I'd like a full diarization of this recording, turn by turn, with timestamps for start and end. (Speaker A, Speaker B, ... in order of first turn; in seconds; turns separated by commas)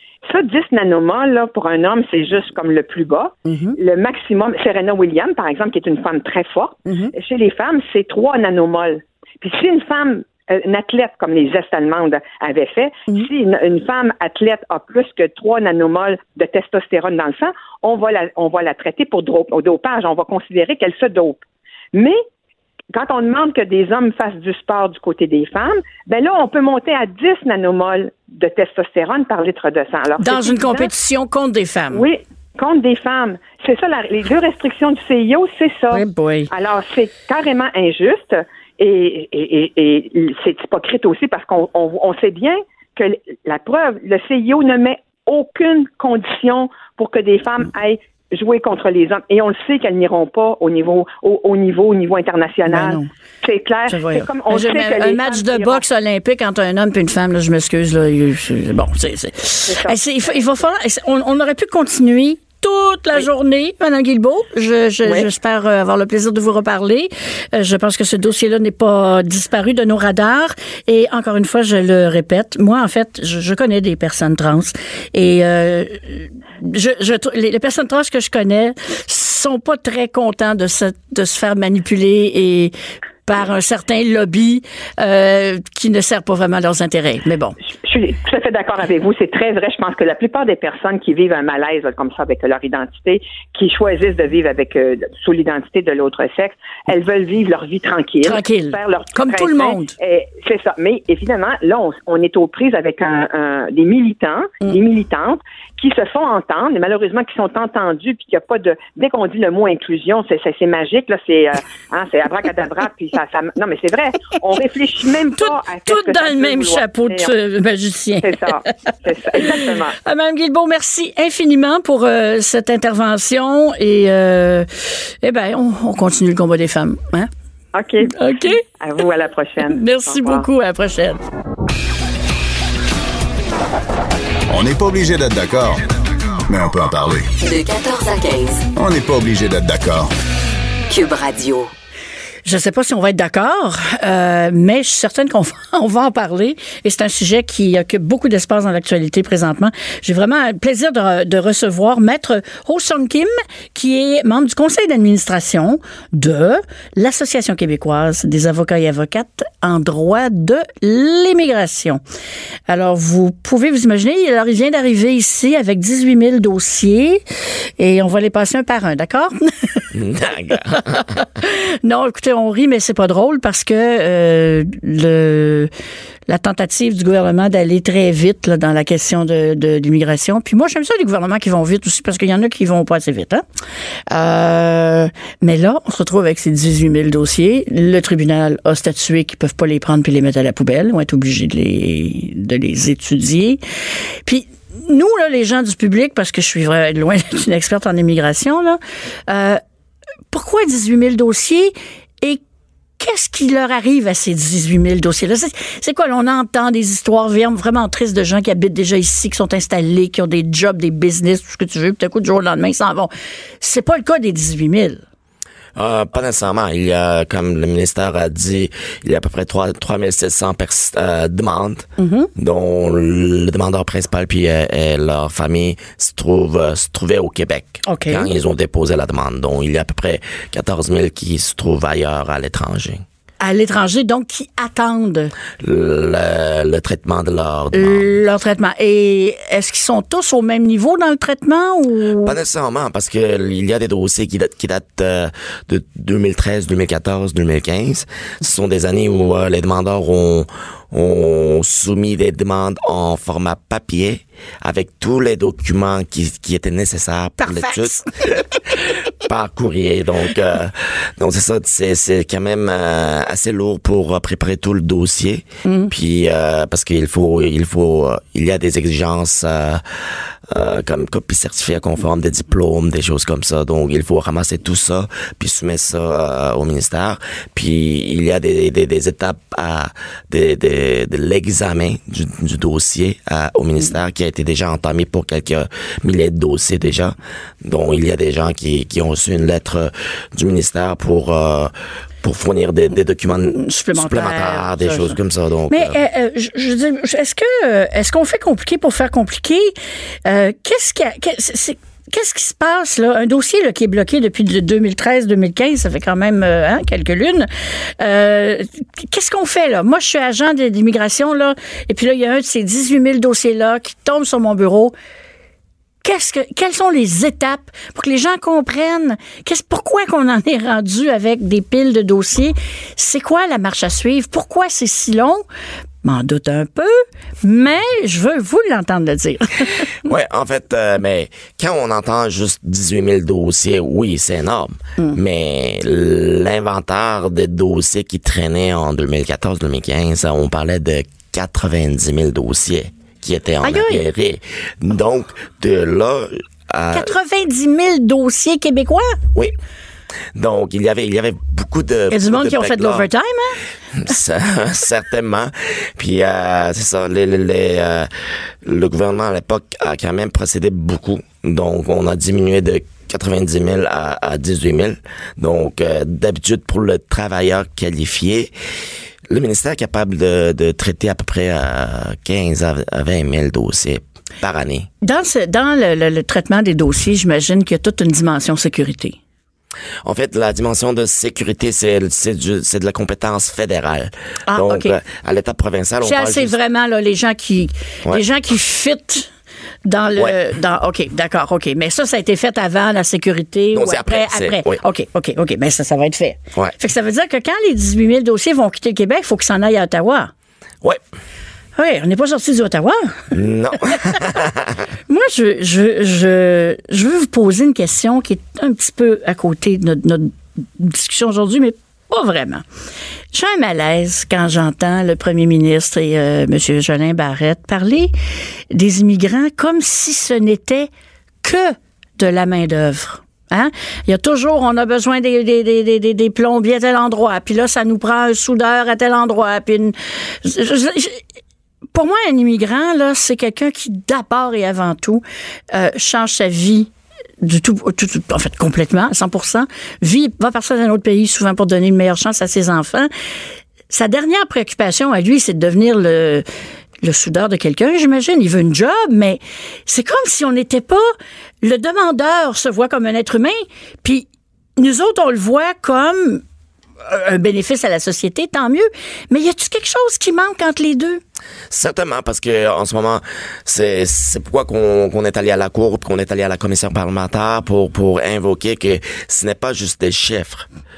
Speaker A: 0.2-21.4, Speaker B: 3.4-3.8, Speaker A: 21.9-22.2, Speaker A: 22.9-30.9, Speaker B: 30.2-32.1, Speaker A: 31.9-55.8, Speaker B: 35.9-36.5, Speaker B: 52.7-53.1, Speaker B: 53.9-82.7, Speaker A: 59.7-60.0, Speaker B: 83.3-87.5, Speaker A: 87.7-117.3, Speaker B: 98.2-99.9, Speaker B: 115.4-118.7, Speaker A: 118.2-120.0, Speaker B: 119.3-127.3, Speaker A: 127.7-130.5, Speaker B: 128.1-128.6, Speaker B: 129.7-131.2, Speaker C: 134.5-135.8, Speaker C: 136.4-137.3, Speaker D: 137.4-138.6, Speaker C: 138.8-140.1, Speaker D: 140.9-141.7, Speaker B: 142.4-162.0, Speaker B: 162.7-167.2, Speaker B: 167.8-169.9, Speaker E: 169.9-171.1, Speaker B: 170.7-175.7, Speaker B: 176.3-183.4, Speaker B: 184.1-193.6, Speaker B: 194.2-199.6, Speaker B: 200.3-202.4, Speaker B: 203.0-215.0, Speaker E: 215.8-233.0, Speaker B: 222.0-222.3, Speaker B: 227.8-228.3, Speaker B: 233.4-235.3, Speaker E: 235.6-238.1, Speaker B: 237.7-242.3, Speaker E: 242.2-258.4, Speaker B: 257.4-258.1, Speaker E: 259.2-269.8, Speaker B: 265.6-265.9, Speaker E: 270.5-296.0, Speaker B: 293.4-295.1, Speaker B: 295.7-314.9, Speaker B: 316.0-325.4, Speaker B: 326.0-329.9, Speaker E: 330.0-347.1, Speaker B: 343.6-344.0, Speaker B: 346.9-349.2, Speaker E: 350.3-353.1, Speaker B: 352.1-353.6, Speaker E: 354.0-368.5, Speaker E: 369.3-374.9, Speaker B: 375.0-379.2, Speaker E: 380.0-386.6, Speaker B: 384.5-384.9, Speaker B: 386.0-389.3, Speaker B: 389.8-400.3, Speaker E: 393.7-394.8, Speaker B: 401.8-403.3, Speaker E: 403.3-404.7, Speaker B: 405.1-412.6, Speaker B: 413.3-418.1, Speaker B: 418.7-420.9, Speaker B: 421.4-431.2, Speaker B: 431.9-443.1, Speaker B: 443.9-446.4, Speaker B: 447.0-451.1, Speaker B: 451.6-456.4, Speaker B: 457.0-461.2, Speaker E: 461.7-470.6